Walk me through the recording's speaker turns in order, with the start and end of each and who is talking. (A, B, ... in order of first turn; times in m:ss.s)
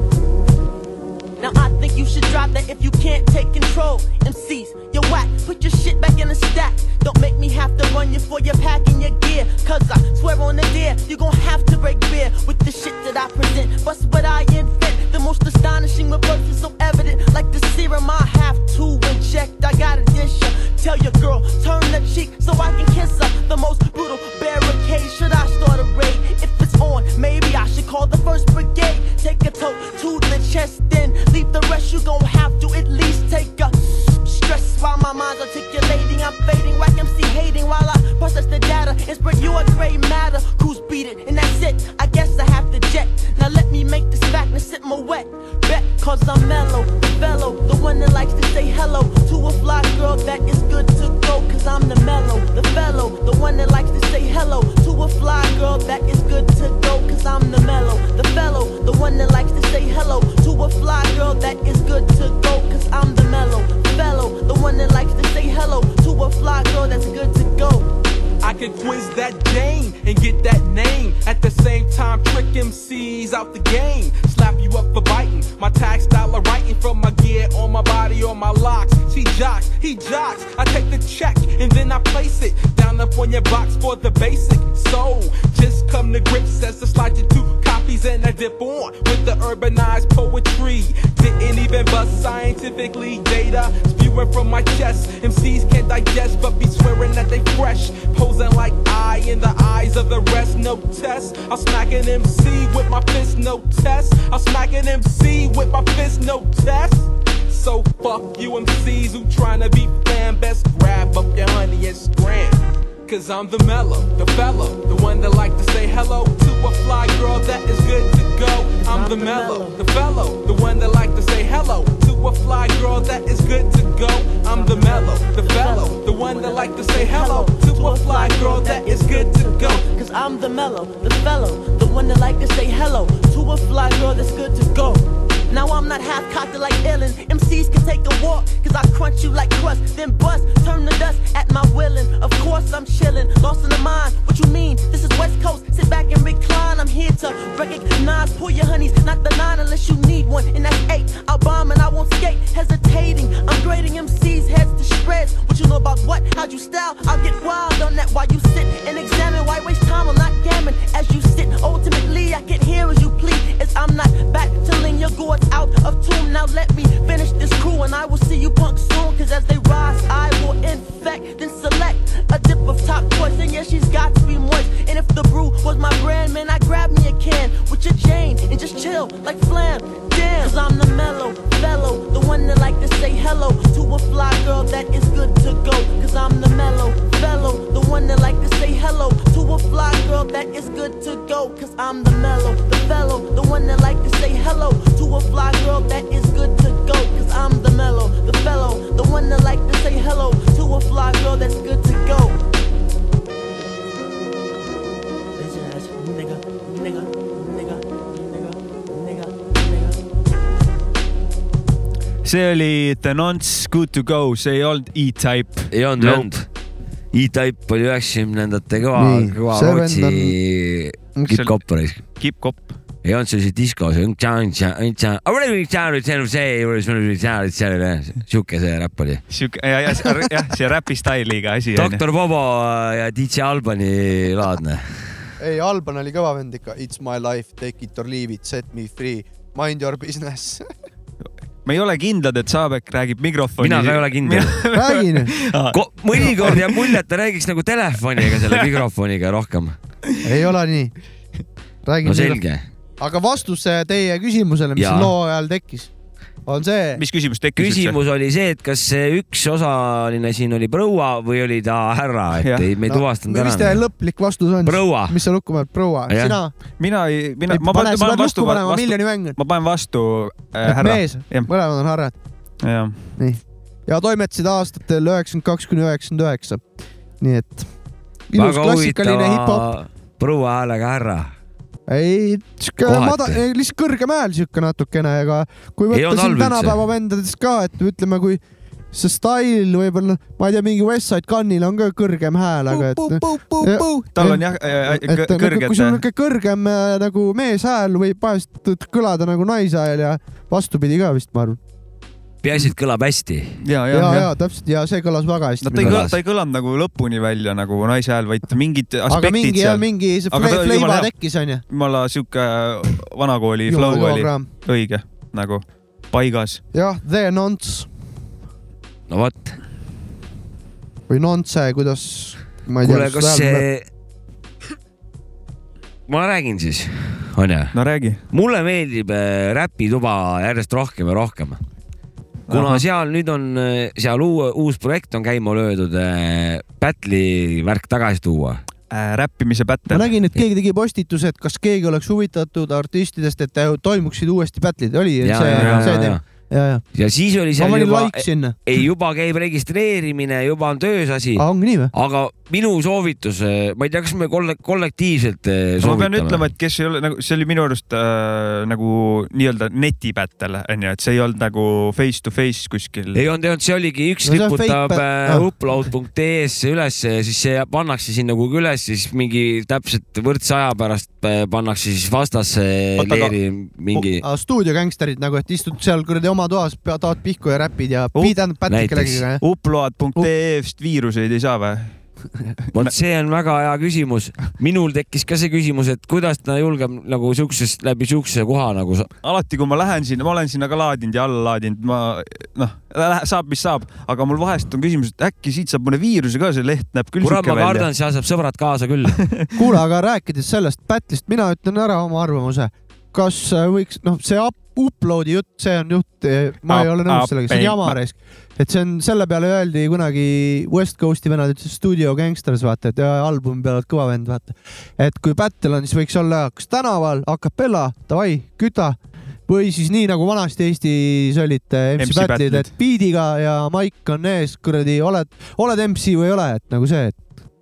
0:01.4-1:07.9 A
1:08.4-2:09.8 B
1:58.8-1:59.8 A
2:04.4-3:22.4 A
3:25.4-3:30.0 A
3:32.2-3:36.3 C
3:35.7-3:36.5 D
3:37.1-3:42.0 D
3:39.0-3:40.4 E
3:42.0-3:42.6 C
3:43.0-3:49.2 D
3:49.3-3:52.0 C
3:51.7-3:55.2 D
3:55.4-4:00.6 E
4:01.6-4:07.0 C
4:03.6-4:04.6 D
4:04.7-4:05.4 E
4:05.7-4:09.8 D
4:06.2-4:06.5 E
4:08.3-4:08.5 C
4:10.2-4:10.9 E
4:11.8-4:12.4 E
4:12.0-4:12.6 D
4:13.0-4:15.9 E
4:14.8-4:15.1 D
4:16.4-4:17.0 E
4:16.9-4:18.0 C
4:17.6-4:23.8 D
4:22.4-4:22.7 C
4:22.9-4:26.5 E
4:24.6-4:25.2 D
4:26.1-4:26.4 D
4:26.8-4:31.5 C
4:27.5-4:29.4 E
4:30.6-4:32.1 E
4:32.6-4:32.9 C
4:33.2-4:36.6 E
4:37.2-4:37.7 E
4:38.3-4:39.6 E
4:38.4-4:41.3 D
4:41.9-4:48.4 E
4:42.8-4:43.4 D
4:45.9-4:46.8 D
4:48.9-5:01.6 E
4:52.8-4:53.9 D
4:54.1-4:56.0 C
5:02.4-5:03.6 D
5:03.6-5:04.3 C
5:03.9-5:06.1 E
5:05.6-5:11.1 C
5:05.8-5:06.1 D
5:09.1-5:11.6 E
5:11.7-5:16.6 C
5:13.6-5:14.5 E
5:16.7-5:17.9 E
5:19.1-5:19.6 D
5:21.1-5:23.6 E
5:22.8-5:23.8 D
5:26.1-5:27.7 D
5:27.7-5:28.2 C
5:28.3-5:31.6 D
5:32.5-5:32.8 C
5:32.5-5:38.6 D
5:38.9-5:40.1 C
5:39.9-5:46.8 E
5:45.2-5:46.2 D
5:45.5-5:45.9 C
5:46.9-5:56.5 D
5:47.5-5:48.6 E
5:51.4-5:51.9 E
5:55.8-6:03.2 C
6:03.1-6:14.2 D
6:04.2-6:05.5 E
6:13.0-6:13.3 C
6:14.2-6:19.4 E
6:18.7-6:19.2 D
6:19.4-6:21.9 C
6:22.7-6:29.1 D
6:29.2-6:37.9 C
6:37.2-6:39.2 D
6:39.6-7:07.2 E
6:46.7-6:48.0 C
7:02.0-7:02.7 C